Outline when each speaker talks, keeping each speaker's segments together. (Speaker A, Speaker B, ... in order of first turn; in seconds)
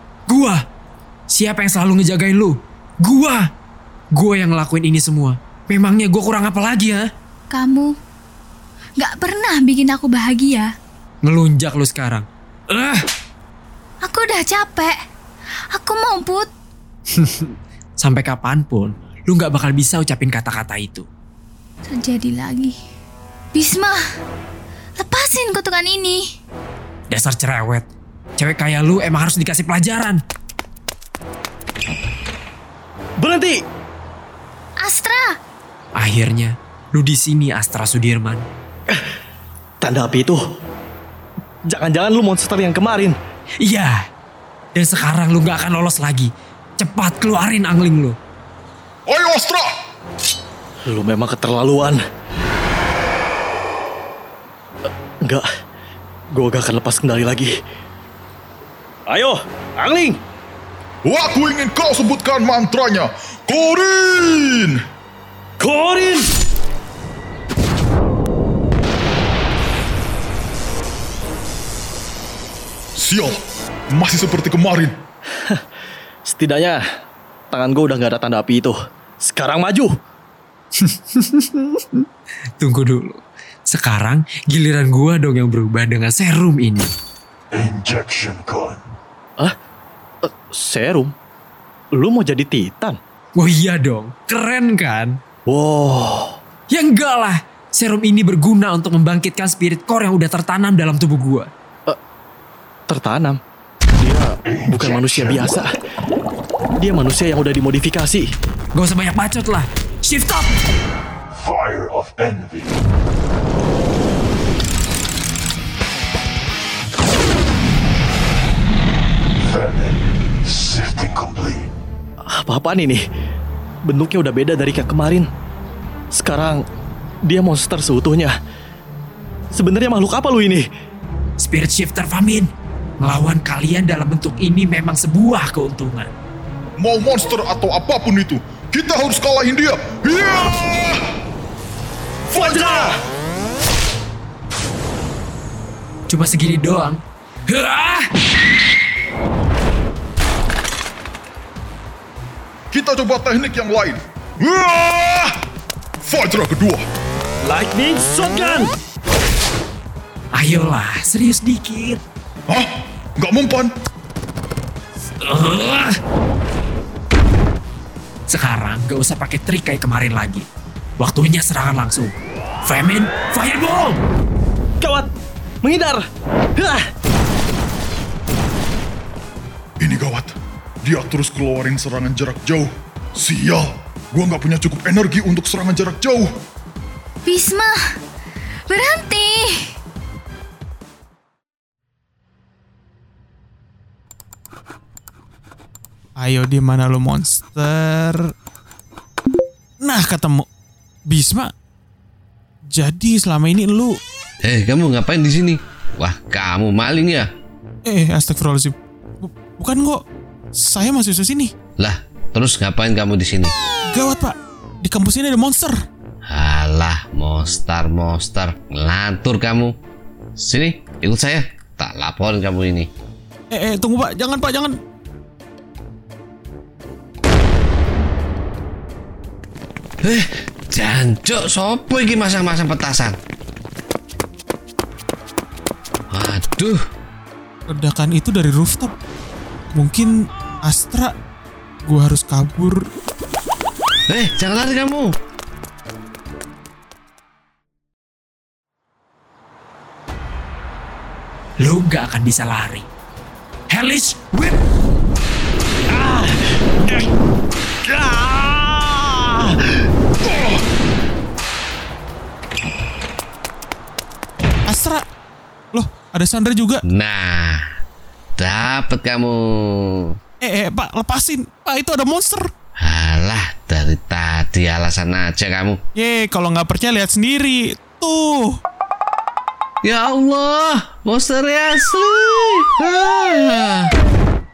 Speaker A: 0.3-0.6, 1.3-3.5, 4.1-7.1, 11.2-13.0, 17.1-21.1, 27.1-27.9, 28.4-30.2, 36.0-38.4, 43.6-44.0, 44.8-48.1, 80.8-81.8, 82.6-86.9, 93.3-95.2, 96.7-101.5, 108.7-110.5, 131.4-132.5, 133.0-136.1, 146.1-148.1, 160.3-162.0, 165.2-165.9, 168.3-170.4, 171.0-172.1, 172.6-174.0, 251.6-252.8, 253.7-254.6
Speaker B: 7.5-8.0, 9.0-10.7, 14.0-15.0, 15.7-16.5, 21.9-22.8, 23.5-24.0, 25.0-26.2, 34.8-35.4, 187.2-187.8, 188.7-189.7
Speaker C: 33.2-33.6, 39.8-40.4, 41.7-43.1, 50.9-52.0, 56.3-57.5, 59.1-60.2, 65.6-66.3, 76.3-76.8, 77.5-79.9, 90.2-91.1, 91.9-93.0, 95.5-96.3, 102.9-103.4, 104.0-105.7, 106.8-108.3, 122.3-123.0, 123.8-125.3, 126.2-126.6, 127.2-128.3, 129.5-130.6, 142.3-143.0, 157.4-158.7, 174.8-175.1, 175.6-176.9, 255.9-257.1, 257.8-259.6
Speaker D: 49.1-49.7, 61.0-64.8, 73.0-73.4, 73.9-75.0, 136.8-141.0, 142.3-142.9, 152.7-155.4, 156.0-156.8, 162.5-163.7, 179.8-186.3, 260.2-260.6
Speaker E: 87.5-88.8, 104.4-105.6, 111.3-112.8, 119.3-121.7
Speaker F: 196.2-198.3, 199.8-200.4, 201.1-201.5, 202.7-204.0, 207.9-210.0, 210.6-211.5, 213.9-215.8, 223.5-224.7, 237.7-238.9, 239.7-240.1, 240.6-241.1, 241.8-242.8, 264.7-265.0, 265.7-266.8, 270.4-272.5, 276.0-278.6
Speaker G: 204.4-207.3, 211.8-213.5, 216.3-219.7, 220.4-222.9, 230.0-233.2, 236.1-236.8, 244.1-245.1, 266.9-267.7, 268.4-270.2, 272.8-275.8, 279.8-283.9